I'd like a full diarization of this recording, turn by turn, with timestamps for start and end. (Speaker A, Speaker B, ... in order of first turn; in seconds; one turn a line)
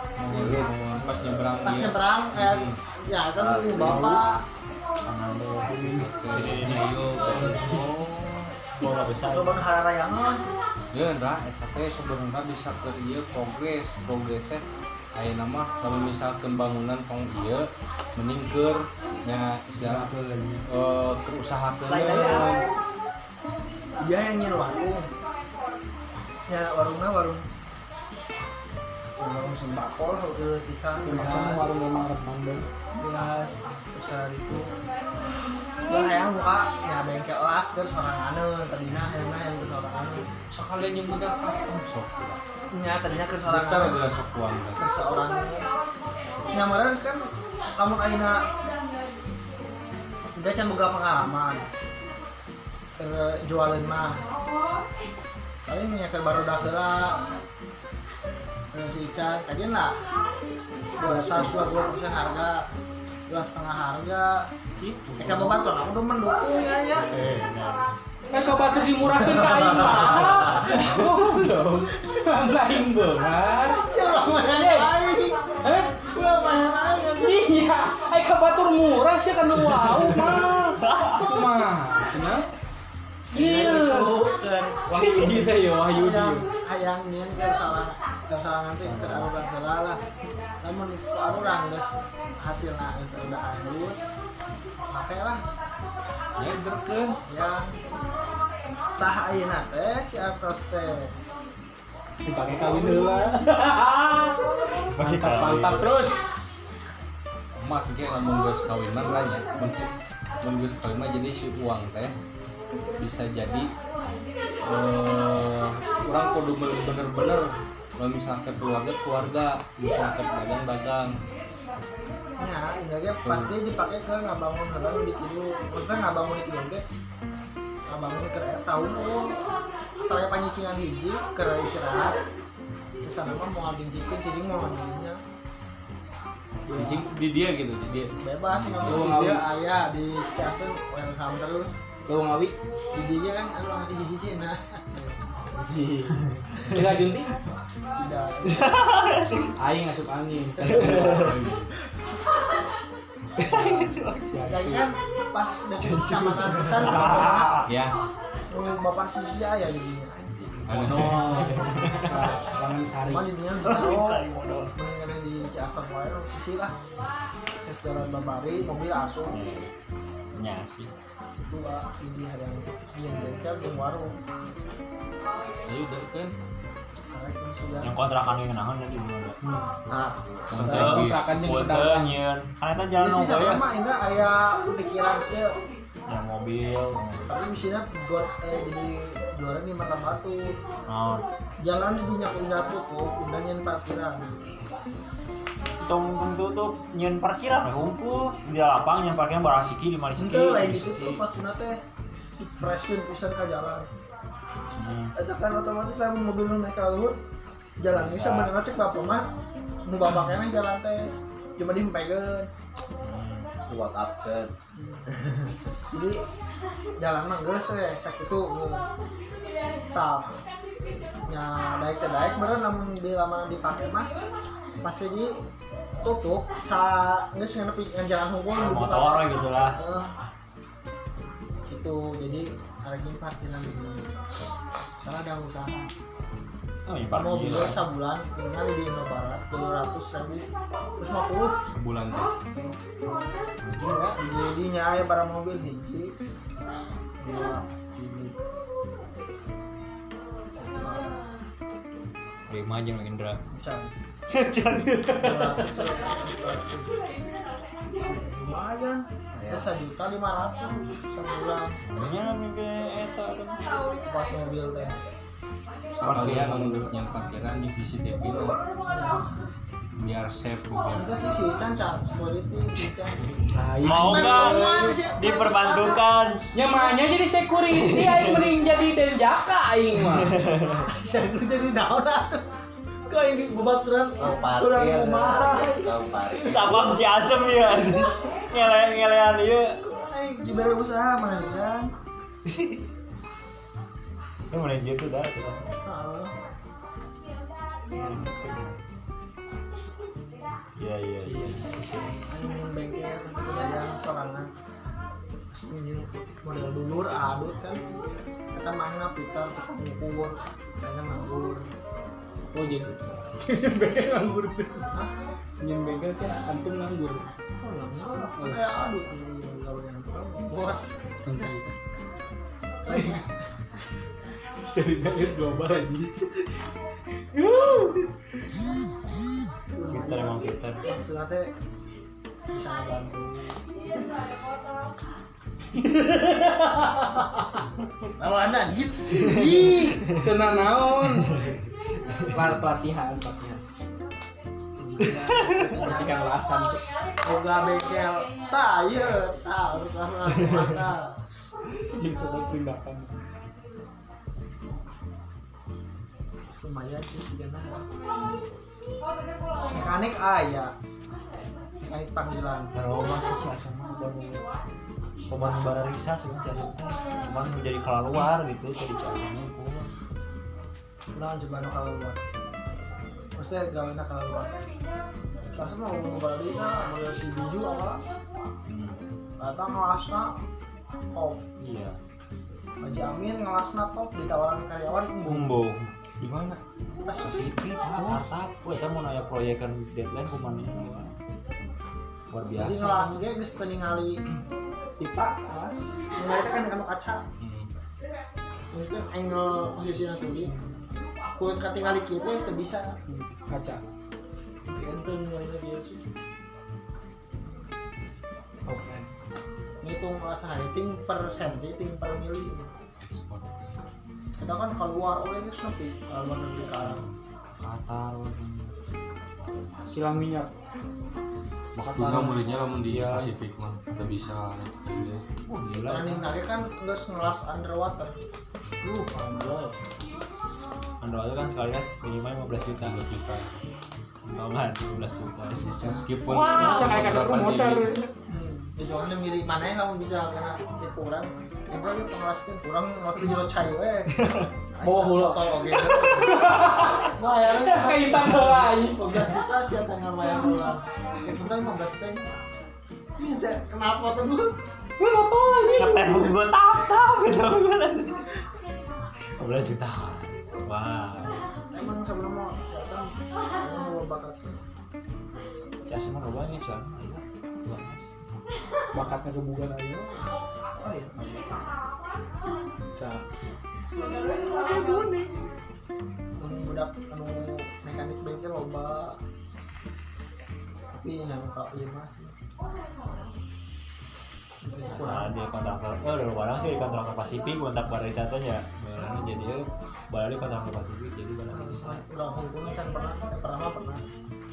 Speaker A: 0.2-2.8
Speaker B: 0.2-1.6
Speaker C: 1.6-4.4
Speaker B: 3.4-4.2
Speaker D: 5.0-7.9
Speaker A: 5.7-8.5
Speaker D: 8.7-9.6
Speaker C: 9.3-10.4
Speaker A: 10.9-14.6
Speaker A: 15.1-20.1
Speaker D: 19.8-20.6
Speaker E: 19.9-20.4
Speaker A: 20.7-22.6
Speaker C: 21.9-22.7
Speaker D: 22.0-22.5
Speaker C: 24.0-25.1
Speaker C: 26.5-27.4
Speaker C: 29.2-31.8
Speaker E: 31.0-32.7
Speaker C: 33.0-34.7
Speaker C: 35.8-40.2
Speaker A: 40.5-42.4
Speaker C: 42.7-44.0
Speaker A: 43.5-44.8
Speaker C: 44.8-45.7
Speaker C: 46.5-48.5
Speaker C: 50.4-51.7
Speaker C: 53.0-54.2
Speaker C: 55.7-57.2
Speaker C: 58.7-60.0
Speaker C: 61.0-62.7
Speaker E: 61.0-61.6
Speaker C: 63.3-64.5
Speaker E: 64.8-65.5
Speaker D: 65.2-65.6
Speaker C: 65.2-67.1
Speaker D: 67.0-67.9
Speaker E: 68.3-74.9
Speaker C: 68.8-70.8
Speaker D: 69.1-71.4
Speaker C: 73.8-75.4
Speaker E: 75.6-75.9
Speaker C: 76.0-77.5
Speaker E: 77.2-82.5
Speaker D: 79.6-81.6
Speaker C: 83.3-84.8
Speaker E: 83.3-86.5
Speaker D: 84.9-85.5
Speaker C: 85.8-90.0
Speaker D: 88.8-89.3
Speaker C: 90.6-94.0
Speaker C: 94.9-95.4
Speaker A: 96.4-97.2
Speaker C: 97.3-97.9
Speaker C: 99.0-101.1
Speaker E: 102.2-104.4
Speaker D: 104.9-105.9
Speaker E: 105.0-106.5
Speaker A: 107.5-112.1
Speaker A: 113.0-113.7
Speaker A: 114.6-121.2
Speaker C: 122.4-126.8
Speaker A: 123.2-123.5
Speaker C: 127.9-129.4
Speaker C: 130.0-132.2
Speaker C: 133.0-135.2
Speaker E: 136.7-137.0
Speaker A: 136.7-138.1
Speaker C: 137.9-141.8
Speaker D: 138.5-139.1
Speaker E: 138.8-139.4
Speaker E: 142.1-142.5
Speaker C: 142.9-144.8
Speaker E: 144.9-147.4
Speaker D: 146.2-147.0
Speaker C: 147.9-148.9
Speaker D: 148.4-149.5
Speaker E: 149.6-151.3
Speaker D: 150.6-151.4
Speaker A: 150.7-151.7
Speaker E: 153.4-154.9
Speaker D: 153.4-154.6
Speaker C: 154.4-157.6
Speaker D: 155.8-157.7
Speaker A: 157.7-157.9
Speaker C: 158.5-160.5
Speaker A: 160.7-161.3
Speaker E: 160.7-163.3
Speaker D: 160.7-162.4
Speaker C: 163.0-164.2
Speaker D: 163.6-164.7
Speaker C: 164.7-166.7
Speaker C: 167.5-169.4
Speaker D: 169.3-169.7
Speaker D: 170.3-170.9
Speaker C: 171.3-174.2
Speaker A: 175.6-176.3
Speaker C: 177.1-177.9
Speaker D: 177.8-179.4
Speaker E: 179.4-179.7
Speaker B: 179.9-180.9
Speaker A: 180.5-181.4
Speaker D: 180.5-183.7
Speaker E: 180.6-182.2
Speaker C: 183.0-185.6
Speaker D: 186.1-187.2
Speaker C: 187.3-190.6
Speaker D: 190.9-191.3
Speaker C: 191.6-194.3
Speaker D: 195.8-201.2
Speaker C: 200.2-201.8
Speaker C: 202.4-203.9
Speaker D: 204.8-205.1
Speaker C: 205.2-207.2
Speaker C: 207.8-209.3
Speaker D: 207.9-208.6
Speaker C: 209.8-212.5
Speaker D: 213.0-213.5
Speaker B: 213.7-214.5
Speaker C: 214.8-215.0
Speaker B: 215.1-215.5
Speaker C: 215.9-216.2
Speaker C: 217.0-218.8
Speaker C: 219.9-220.4
Speaker C: 221.3-224.1
Speaker C: 224.8-225.4
Speaker C: 226.0-230.1
Speaker D: 228.5-229.8
Speaker C: 231.7-234.1
Speaker C: 235.0-235.9
Speaker D: 236.8-237.9
Speaker C: 237.1-240.5
Speaker C: 241.0-241.6
Speaker A: 241.8-242.7
Speaker D: 243.6-244.0
Speaker E: 243.7-244.2
Speaker C: 244.2-246.1
Speaker C: 247.2-248.3
Speaker C: 250.5-251.1
Speaker D: 252.5-253.4
Speaker C: 253.5-253.9
Speaker D: 254.3-255.3
Speaker E: 254.7-255.7
Speaker C: 255.2-256.9
Speaker C: 258.0-261.8
Speaker B: 259.3-259.7
Speaker D: 261.8-263.6
Speaker C: 264.0-265.0
Speaker A: 266.0-268.6
Speaker D: 266.0-266.7
Speaker C: 268.9-269.3
Speaker A: 269.9-271.2
Speaker C: 270.9-273.2
Speaker E: 273.5-275.0
Speaker D: 273.8-276.4
Speaker C: 273.9-275.9
Speaker E: 276.5-280.3
Speaker D: 277.7-278.5
Speaker D: 279.9-280.9
Speaker C: 280.8-282.5
Speaker C: 283.1-286.7
Speaker B: 284.2-286.8
Speaker D: 286.4-289.8
Speaker C: 289.8-291.9
Speaker D: 292.4-292.8
Speaker D: 294.5-295.7
Speaker C: 295.8-296.3
Speaker D: 297.9-298.8
Speaker D: 300.8-301.7
Speaker E: 301.2-302.2
Speaker C: 302.3-304.5
Speaker C: 305.5-307.8
Speaker C: 308.5-311.7
Speaker E: 312.5-314.9
Speaker C: 312.6-313.1
Speaker E: 315.6-317.3
Speaker C: 317.6-321.6
Speaker E: 318.4-318.8
Speaker E: 321.2-321.6
Speaker C: 322.8-323.2
Speaker E: 322.9-323.2
Speaker E: 324.6-326.5
Speaker E: 327.3-328.1
Speaker C: 329.7-331.5
Speaker D: 329.9-330.9
Speaker C: 332.5-333.6
Speaker E: 335.7-337.4
Speaker C: 338.2-339.8
Speaker E: 339.1-341.4
Speaker D: 339.4-340.3
Speaker D: 341.0-342.5
Speaker E: 342.3-343.6
Speaker C: 344.8-346.2
Speaker E: 345.0-346.8
Speaker D: 345.3-345.7
Speaker C: 347.2-351.1
Speaker D: 350.4-350.8
Speaker E: 351.9-353.1
Speaker C: 356.6-357.9
Speaker C: 359.6-360.7
Speaker C: 361.8-362.7
Speaker D: 362.7-364.4
Speaker D: 365.3-369.9
Speaker C: 371.1-372.2
Speaker C: 373.4-374.5
Speaker C: 375.5-378.0
Speaker D: 378.7-379.0
Speaker C: 379.4-380.4
Speaker C: 381.1-381.4
Speaker D: 381.6-382.0
Speaker C: 382.8-385.5
Speaker D: 385.2-385.9
Speaker A: 386.2-386.6
Speaker C: 387.0-387.5
Speaker D: 387.2-391.1
Speaker D: 392.3-393.3
Speaker C: 392.6-394.2
Speaker C: 395.0-397.2
Speaker E: 395.5-396.1
Speaker A: 397.4-397.7
Speaker C: 398.7-400.5
Speaker E: 400.4-400.8
Speaker C: 401.4-402.9
Speaker E: 403.1-403.8
Speaker C: 404.6-406.0
Speaker E: 408.7-409.1
Speaker C: 409.8-412.7
Speaker A: 413.0-413.8
Speaker C: 414.4-417.0
Speaker A: 416.8-418.7
Speaker A: 419.5-419.9
Speaker E: 419.9-420.5
Speaker A: 421.7-425.2
Speaker E: 421.9-422.4
Speaker D: 421.9-422.3
Speaker D: 422.9-423.3
Speaker D: 425.3-426.3
Speaker C: 425.8-428.1
Speaker E: 428.8-429.7
Speaker D: 431.0-433.0
Speaker A: 432.8-433.5
Speaker D: 434.2-436.9
Speaker A: 435.5-437.9
Speaker E: 436.2-438.1
Speaker C: 438.3-444.1
Speaker D: 444.1-444.5
Speaker C: 444.8-446.4
Speaker E: 444.8-449.3
Speaker C: 447.0-452.3
Speaker C: 453.2-454.5
Speaker E: 455.0-456.3
Speaker D: 455.8-458.2
Speaker D: 459.4-461.4
Speaker C: 461.7-464.6
Speaker D: 465.9-468.1
Speaker E: 468.9-470.3
Speaker C: 470.7-471.6
Speaker E: 472.9-473.2
Speaker E: 474.0-475.3
Speaker C: 476.4-479.2
Speaker C: 480.9-482.3
Speaker C: 484.6-485.3
Speaker D: 484.8-492.0
Speaker C: 491.5-494.0